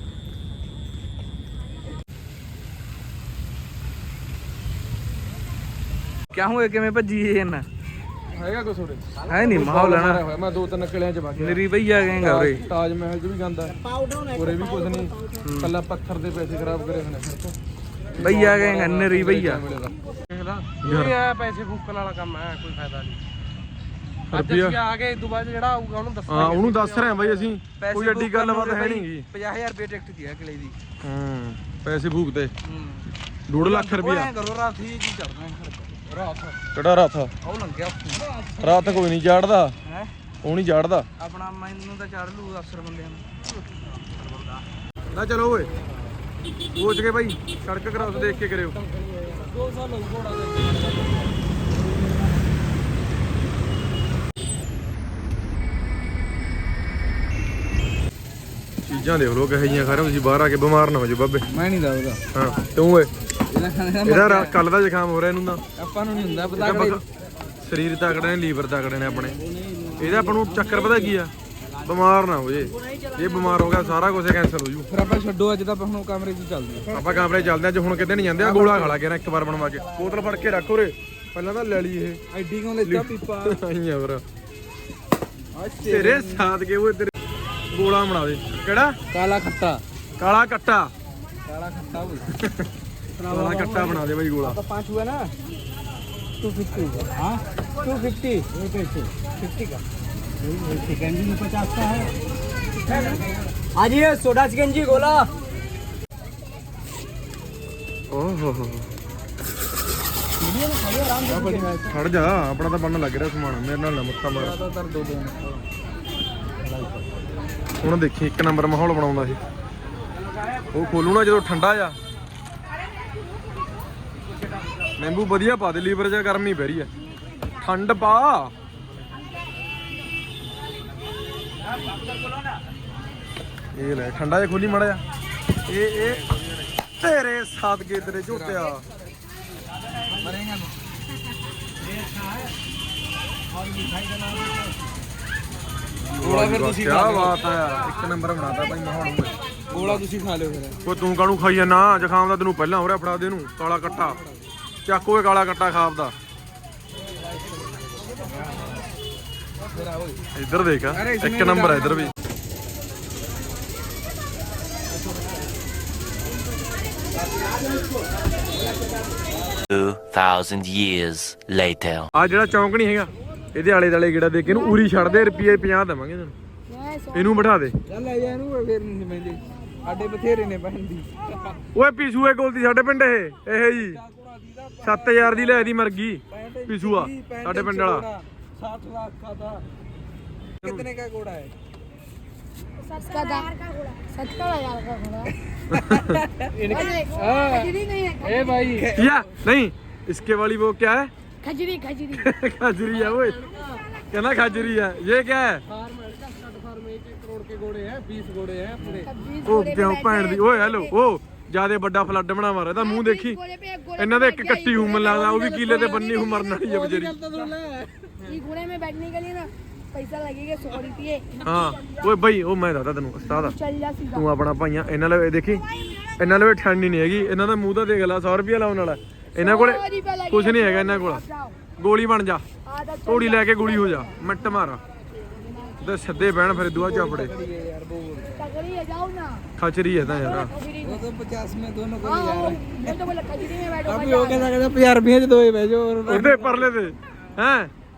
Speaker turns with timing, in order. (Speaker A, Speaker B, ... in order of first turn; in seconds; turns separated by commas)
Speaker A: 6.3-7.7, Speaker B: 8.3-17.6, Speaker A: 9.2-10.2, Speaker A: 11.4-12.7, Speaker A: 15.4-15.7, Speaker A: 18.2-19.6, Speaker B: 18.2-21.2, Speaker C: 20.8-23.2, Speaker B: 24.3-24.8, Speaker C: 24.3-27.5, Speaker B: 26.3-29.2, Speaker A: 27.8-30.8, Speaker B: 31.0-32.5, Speaker A: 32.7-33.1, Speaker B: 33.5-34.3, Speaker A: 33.6-36.5, Speaker B: 36.7-37.3, Speaker A: 37.4-38.9, Speaker B: 38.6-39.7, Speaker B: 40.4-41.1, Speaker A: 41.2-43.2, Speaker B: 45.1-45.7, Speaker B: 46.8-48.8, Speaker C: 48.0-49.5, Speaker A: 49.5-51.0, Speaker B: 58.8-61.5, Speaker A: 61.5-62.2, Speaker B: 62.3-63.1, Speaker A: 63.5-64.6, Speaker B: 64.0-65.6, Speaker A: 65.8-67.0, Speaker B: 66.5-67.0, Speaker B: 67.6-69.4, Speaker A: 69.5-71.0, Speaker B: 70.0-74.9, Speaker A: 74.9-76.9, Speaker B: 76.9-82.2, Speaker A: 78.4-79.0, Speaker A: 82.3-83.6, Speaker B: 82.8-84.2, Speaker A: 85.5-86.5, Speaker B: 85.8-87.1, Speaker B: 87.7-89.0, Speaker A: 89.1-89.8, Speaker B: 90.2-90.9, Speaker A: 91.5-92.4, Speaker B: 92.3-92.7, Speaker A: 93.3-93.9, Speaker B: 93.3-94.6, Speaker C: 93.4-93.9, Speaker A: 94.4-95.3, Speaker A: 96.7-98.7, Speaker A: 99.4-99.8, Speaker A: 102.8-103.2, Speaker A: 104.8-105.2, Speaker B: 108.1-108.9, Speaker A: 110.7-111.8, Speaker C: 111.3-111.8, Speaker B: 111.9-114.6, Speaker A: 114.4-115.6, Speaker B: 117.8-119.4, Speaker B: 120.7-122.0, Speaker B: 125.0-126.9, Speaker B: 127.6-128.5, Speaker B: 133.7-135.0, Speaker B: 135.7-136.3, Speaker B: 137.0-138.8, Speaker A: 138.1-138.8, Speaker A: 140.1-140.7, Speaker A: 144.0-144.4, Speaker A: 146.1-147.3, Speaker B: 146.2-150.0, Speaker A: 149.7-150.8, Speaker B: 150.8-154.2, Speaker A: 153.9-154.5, Speaker B: 154.9-156.1, Speaker A: 157.1-158.7, Speaker A: 159.6-160.2, Speaker B: 160.3-162.1, Speaker A: 160.9-162.1, Speaker D: 169.7-172.1, Speaker B: 172.1-176.3, Speaker E: 174.5-175.5, Speaker E: 176.7-177.3, Speaker B: 177.1-177.8, Speaker A: 177.9-181.6, Speaker B: 181.7-184.0, Speaker A: 183.7-185.7, Speaker B: 184.8-188.1, Speaker A: 186.3-189.6, Speaker A: 190.6-191.5, Speaker B: 190.6-190.9, Speaker E: 192.8-195.3, Speaker A: 195.5-196.5, Speaker B: 195.7-196.2, Speaker C: 196.5-198.9, Speaker E: 196.7-198.7, Speaker A: 198.7-199.4, Speaker B: 198.9-201.1, Speaker E: 201.4-202.3, Speaker B: 202.1-203.4, Speaker B: 204.1-205.6, Speaker C: 205.7-209.1, Speaker A: 208.8-209.1, Speaker E: 209.0-210.9, Speaker B: 209.5-213.4, Speaker E: 212.8-216.6, Speaker B: 214.0-217.2, Speaker C: 216.6-217.9, Speaker E: 218.2-222.1, Speaker B: 221.4-223.6, Speaker E: 223.3-224.2, Speaker B: 224.1-225.7, Speaker B: 226.2-232.4, Speaker E: 229.4-231.6, Speaker E: 232.7-234.1, Speaker B: 233.1-234.8, Speaker B: 235.8-237.3, Speaker A: 236.5-238.6, Speaker E: 238.4-239.4, Speaker B: 239.6-240.5, Speaker E: 240.2-241.0, Speaker A: 240.8-243.2, Speaker E: 242.0-244.5, Speaker A: 243.8-246.7, Speaker B: 246.1-247.7